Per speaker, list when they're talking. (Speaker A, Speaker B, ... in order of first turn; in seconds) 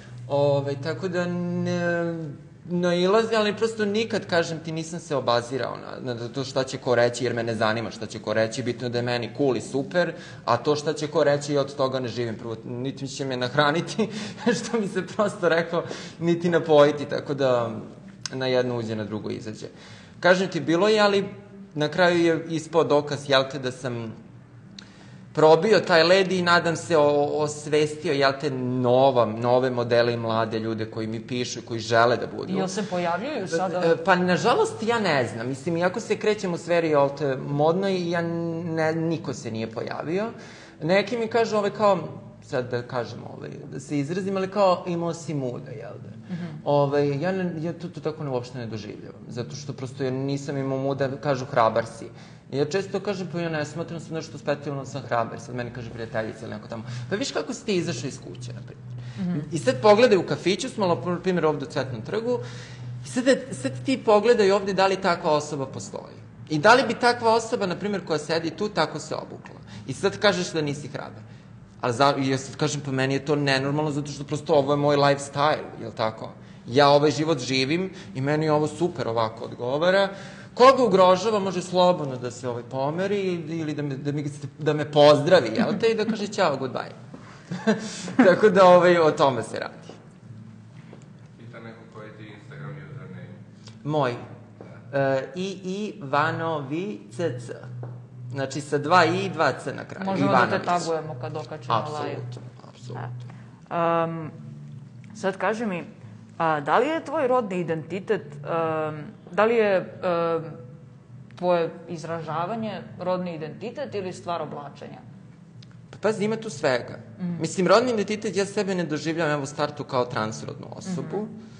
Speaker A: 0.3-24.2, 25.3-32.7, 33.5-62.4, 63.0-71.2, 71.8-87.0, 87.5-90.0, 93.8-94.2, 94.9-97.7, 98.3-100.9, 101.7-103.1, 115.9-121.3
Speaker B: 32.5-33.9, 46.3-46.6, 59.2-59.5, 100.0-102.2, 103.7-104.3, 105.1-110.6, 111.3-115.0, 120.8-121.2
Speaker C: 91.4-93.4